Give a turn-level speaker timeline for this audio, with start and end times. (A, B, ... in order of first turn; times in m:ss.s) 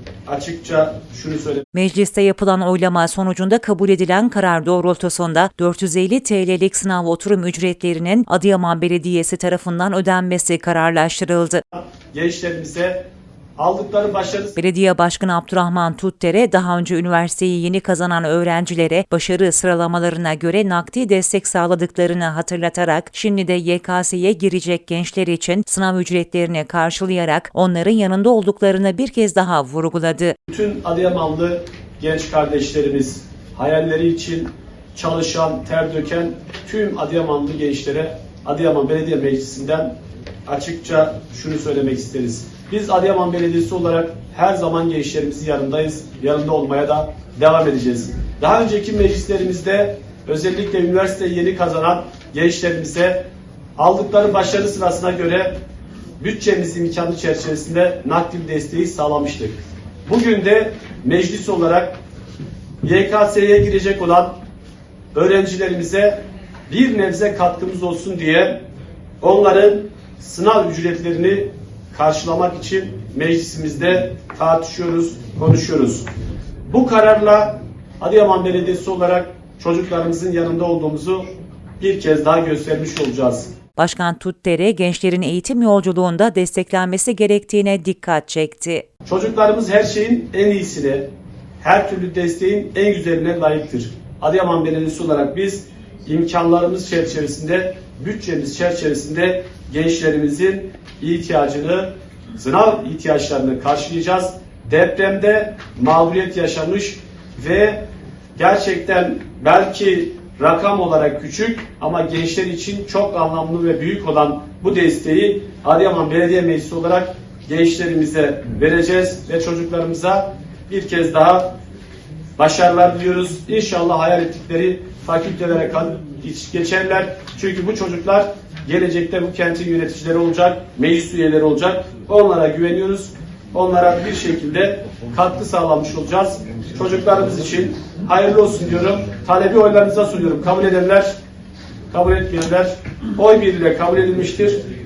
0:00.3-0:01.6 A
0:01.7-0:11.6 B
0:11.7-0:13.0 A
0:13.6-0:14.6 A
0:14.6-0:30.4 B
0:30.5-0:39.9 A
0:40.4-0:53.2 A
0:53.8-0:55.5 A
0:56.2-1:01.9 A
1:02.8-1:04.4 A
1:05.1-1:08.6 A
1:09.2-1:16.0 A
1:16.7-1:23.5 A
1:23.8-1:28.8 B
1:29.0-1:31.1 A
1:31.6-1:47.8 A
1:48.4-2:01.5 A
2:02.4-2:21.1 A
2:21.9-2:24.6 A